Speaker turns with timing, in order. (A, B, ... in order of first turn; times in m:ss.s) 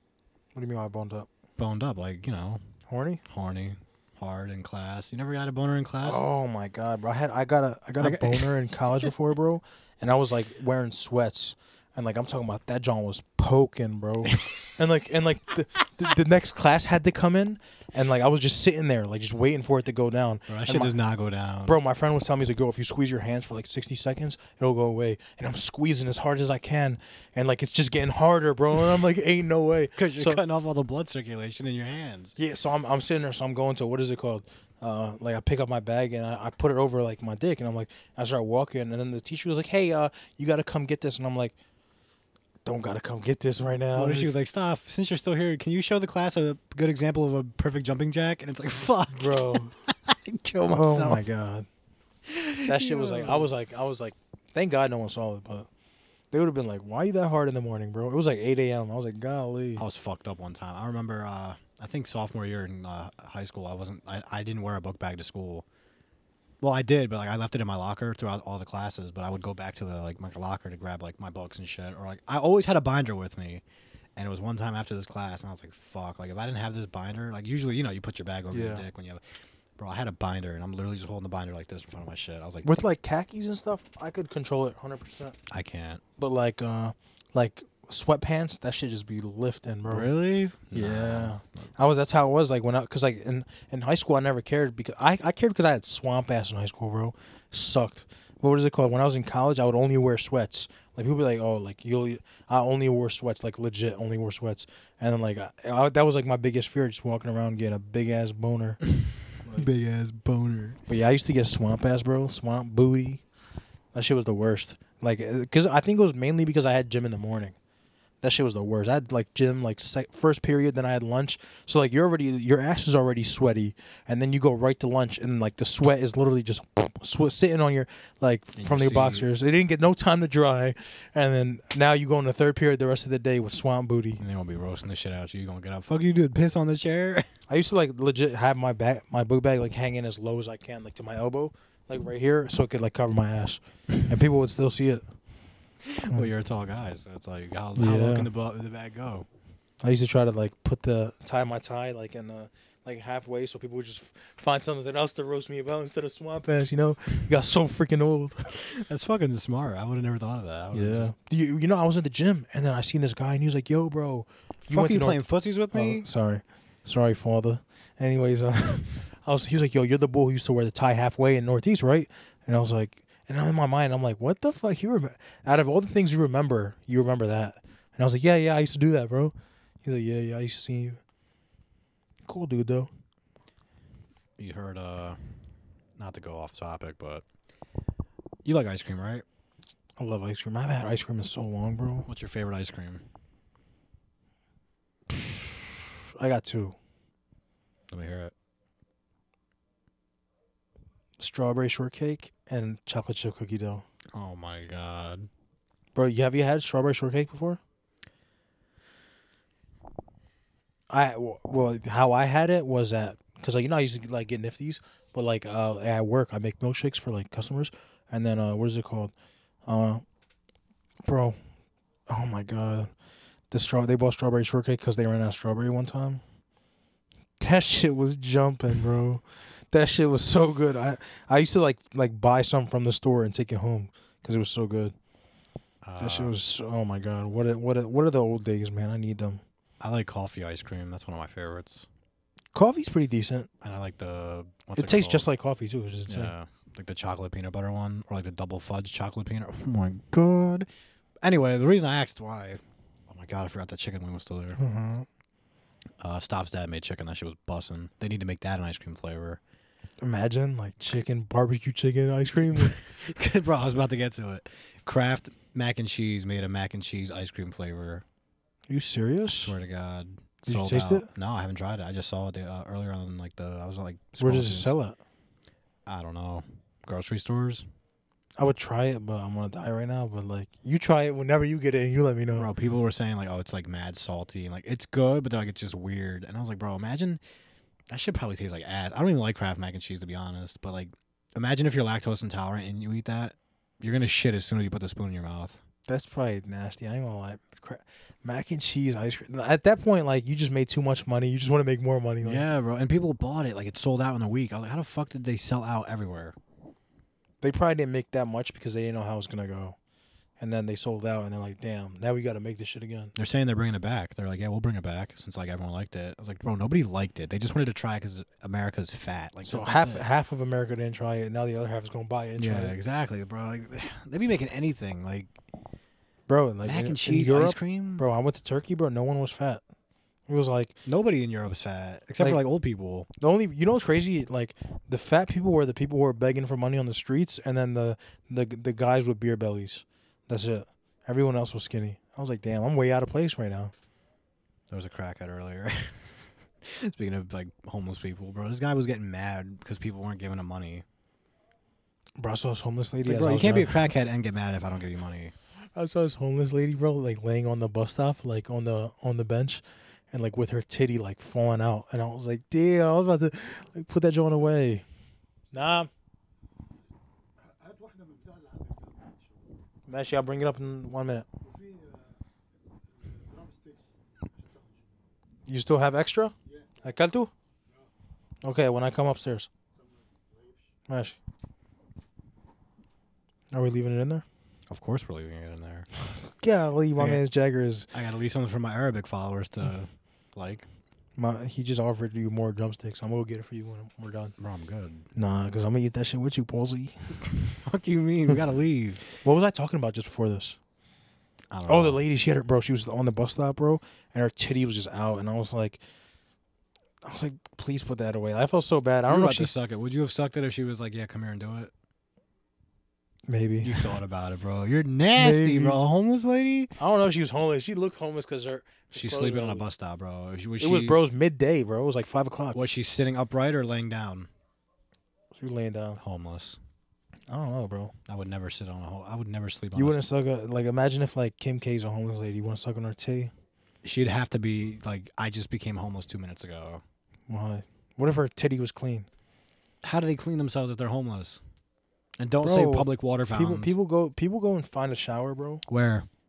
0:00.5-0:01.3 A
0:01.6-0:02.6 B
0:02.9-0:03.2 A
0:03.2-0:06.2 B
0:06.0-0:20.9 A
0:08.0-0:09.1 B
0:14.2-0:14.6 B
0:20.5-0:21.8 B
0:21.6-0:30.4 A
0:30.0-0:32.3 B
0:32.4-0:41.5 A
0:42.6-0:44.3 A
0:43.9-0:51.2 B
0:49.1-0:49.8 A
0:50.7-0:51.7 A
0:52.2-0:53.5 B
0:52.6-0:55.7 A
0:56.3-0:59.8 A
0:59.8-1:05.6 B
1:06.6-1:13.6 B
1:14.2-1:19.2 B
1:18.5-1:18.8 A
1:19.8-1:22.7 B
1:22.6-1:25.4 A
1:25.5-1:26.0 B
1:26.2-1:30.1 A
1:29.9-1:31.7 B
1:30.7-1:48.8 A
1:48.8-1:50.8 B
1:49.4-1:49.7 A
1:50.9-1:53.2 A
1:53.9-1:57.6 A
1:58.2-2:14.2 A
2:08.6-2:09.3 B
2:14.2-2:17.3 B
2:17.5-2:25.0 A
2:25.8-2:29.3 B
2:27.8-2:28.3 A
2:29.8-2:38.6 A
2:38.5-2:41.1 B
2:40.7-2:45.2 A
2:44.7-2:46.1 B
2:45.7-3:01.0 A
3:02.3-3:02.9 A
3:04.4-3:05.2 B
3:06.0-3:07.2 B
3:08.4-3:09.2 B
3:10.0-3:12.1 A
3:12.1-3:13.0 B
3:15.1-3:16.8 A
3:17.9-3:18.3 B
3:21.2-3:23.8 A
3:24.1-3:25.3 B
3:25.9-3:27.6 A
3:30.9-3:39.1 A
3:39.6-3:40.0 A
3:41.0-3:41.4 A
3:42.1-3:42.9 A
3:43.5-3:46.2 A
3:47.4-3:54.9 A
3:55.8-3:56.3 B
3:56.0-3:59.4 A
3:59.8-4:01.9 B
4:02.5-4:03.5 A
4:03.6-4:05.3 B
4:04.8-4:06.3 A
4:06.1-4:10.7 B
4:11.2-4:14.6 B
4:14.6-4:15.1 A
4:16.0-4:19.4 B
4:20.0-4:22.8 A
4:22.8-4:28.0 B
4:28.7-4:29.5 A
4:29.2-4:34.7 B
4:30.4-4:31.1 A
4:34.2-4:35.0 A
4:35.8-4:37.6 B
4:38.4-4:42.5 A
4:42.4-4:47.2 B
4:47.9-4:55.6 B
4:55.9-5:02.4 A
5:02.2-5:06.4 B
5:07.4-5:09.8 A
5:10.4-5:13.1 A
5:13.2-5:20.1 B
5:19.4-5:22.8 A
5:22.4-5:25.3 B
5:26.3-5:29.6 A
5:26.6-5:28.0 B
5:30.3-5:30.8 A
5:30.8-5:33.1 B
5:33.2-5:43.7 A
5:44.7-5:50.8 B
5:52.2-5:53.9 A
5:53.0-5:55.3 B
5:55.8-6:04.8 A
6:05.5-6:05.9 A
6:09.9-6:11.3 A
6:15.5-6:17.3 A
6:18.4-6:19.5 A
6:20.9-6:21.2 A
6:23.5-6:24.2 A
6:24.7-6:25.9 B
6:26.1-6:27.9 A
6:27.0-6:27.2 B
6:27.9-6:30.7 B
6:31.2-6:34.3 A
6:34.4-6:35.1 B
6:35.1-6:37.2 A
6:37.3-6:39.0 B
6:39.2-6:40.6 A
6:41.5-6:42.0 B
6:41.7-6:45.8 A
6:47.0-6:49.5 A
6:49.1-6:51.7 B
6:53.3-6:53.9 A
6:53.6-6:56.7 B
6:55.2-6:55.8 A
6:56.8-6:59.6 A
6:58.9-7:01.0 B
7:00.6-7:02.7 A
7:02.5-7:04.3 B
7:05.3-7:06.0 A
7:06.0-7:06.6 B
7:07.3-7:07.9 A
7:08.1-7:10.0 B
7:09.7-7:13.3 A
7:13.8-7:16.8 B
7:17.3-7:19.1 A
7:19.8-7:21.4 B
7:22.2-7:23.7 B
7:22.4-7:25.6 A
7:25.7-7:26.1 B